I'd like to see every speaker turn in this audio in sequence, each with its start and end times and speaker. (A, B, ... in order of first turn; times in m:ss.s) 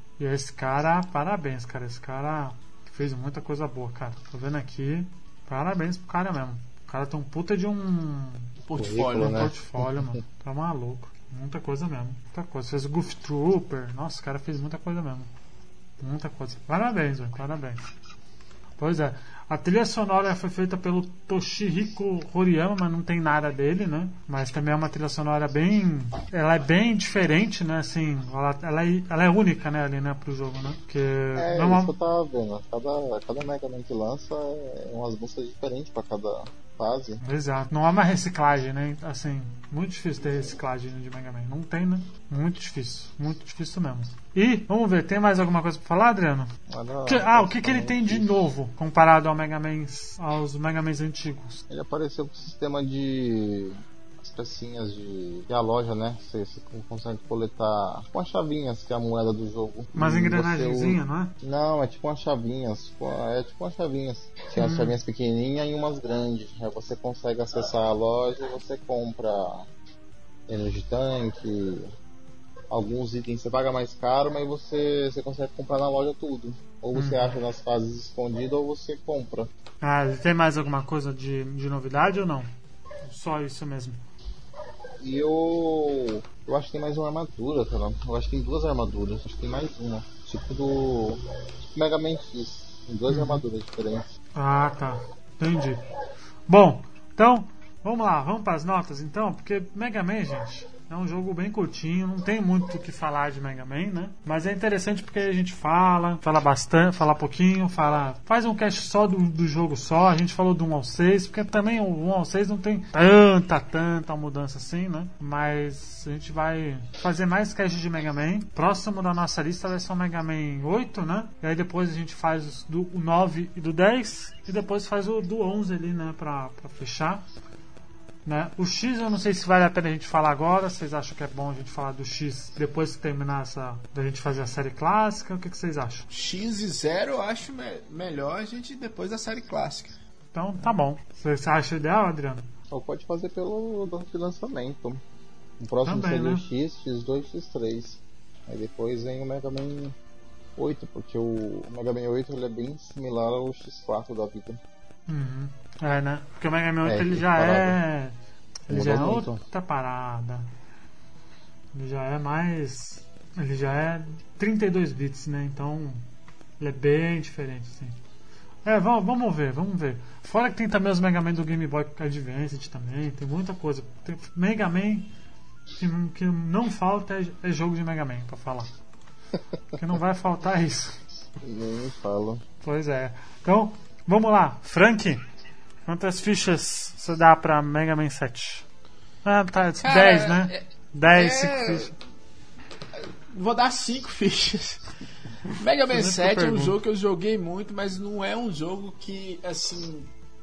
0:00.2-0:08.5 A
0:08.7-0:09.5 B
0:08.8-0:10.2 C
0:09.2-0:15.3 A
0:16.0-0:17.8 A
0:18.8-0:31.9 A
0:31.4-0:37.2 C
0:37.2-0:46.5 A
0:46.7-0:48.5 C
0:47.1-0:51.6 A
0:51.7-1:09.7 C
1:00.0-1:01.3 A
1:04.6-1:05.0 A
1:10.5-1:11.9 C
1:12.7-1:19.5 C
1:16.9-1:17.4 A
1:19.8-1:22.5 A
1:23.0-1:24.0 A
1:25.0-1:34.1 C
1:33.1-1:33.4 A
1:34.4-1:35.8 A
1:36.5-2:07.2 A
2:08.2-2:16.1 A
2:16.1-2:20.0 B
2:20.3-2:22.5 A
2:22.7-2:25.0 C
2:25.6-2:30.0 C
2:25.8-2:26.4 A
2:30.6-2:34.6 C
2:35.1-2:38.2 A
2:36.8-2:37.8 C
2:38.7-2:40.5 A
2:38.7-2:39.4 C
2:41.7-2:46.0 A
2:46.6-2:48.0 A
2:48.6-2:55.1 A
2:55.8-2:58.7 A
2:59.8-3:01.0 A
3:01.4-3:02.4 C
3:02.6-3:05.2 A
3:05.9-3:08.7 A
3:09.2-3:11.9 A
3:09.8-3:12.0 B
3:12.9-3:14.9 B
3:15.5-3:20.1 B
3:15.9-3:16.8 A